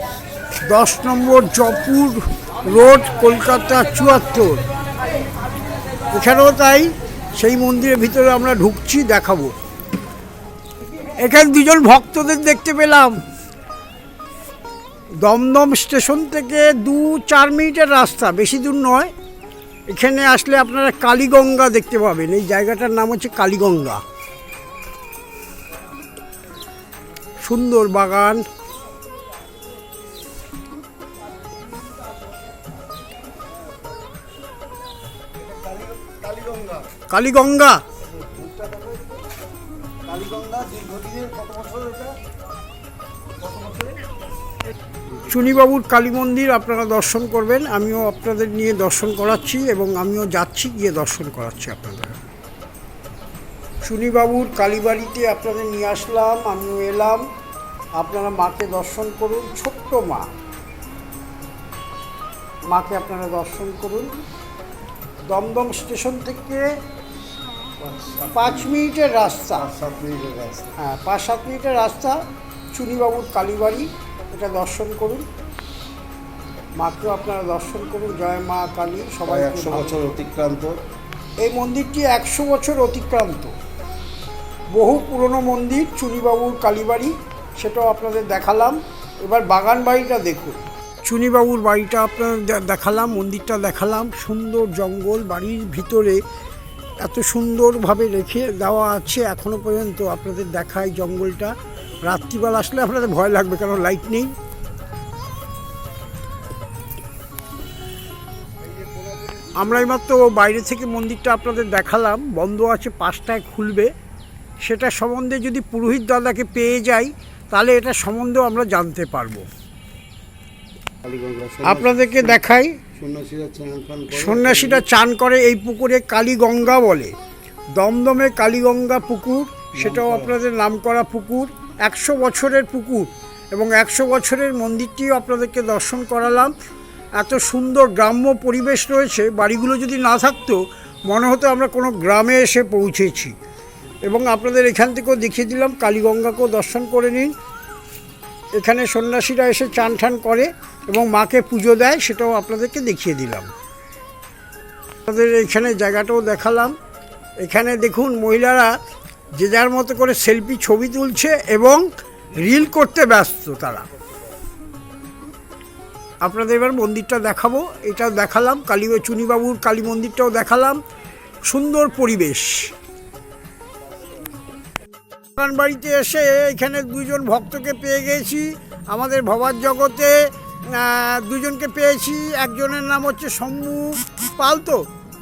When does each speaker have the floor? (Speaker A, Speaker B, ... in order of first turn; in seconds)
Speaker A: 0.7-4.6, 6.1-9.5, 11.2-13.2, 15.2-19.1, 19.9-24.0, 27.4-28.4, 37.1-37.8, 45.3-52.2, 53.8-57.2, 58.0-60.3, 62.7-64.1, 65.3-66.7, 68.3-69.7, 70.8-72.2, 72.7-75.2, 76.8-80.1, 81.4-83.5, 84.7-96.2, 97.0-104.3, 109.6-113.9, 114.6-119.5, 121.6-122.8, 124.1-127.1, 127.8-136.5, 137.2-143.3, 144.1-147.3, 148.5-153.5, 155.1-156.7, 157.4-158.7, 159.3-163.8, 166.2-170.8, 171.5-172.7, 175.3-184.8
Speaker B: 35.3-36.9, 38.0-39.2, 40.1-42.1, 43.4-44.1, 67.8-68.7, 69.5-70.8, 79.2-80.8, 108.6-110.0, 121.0-122.4, 122.9-124.8, 129.7-130.3, 163.9-164.2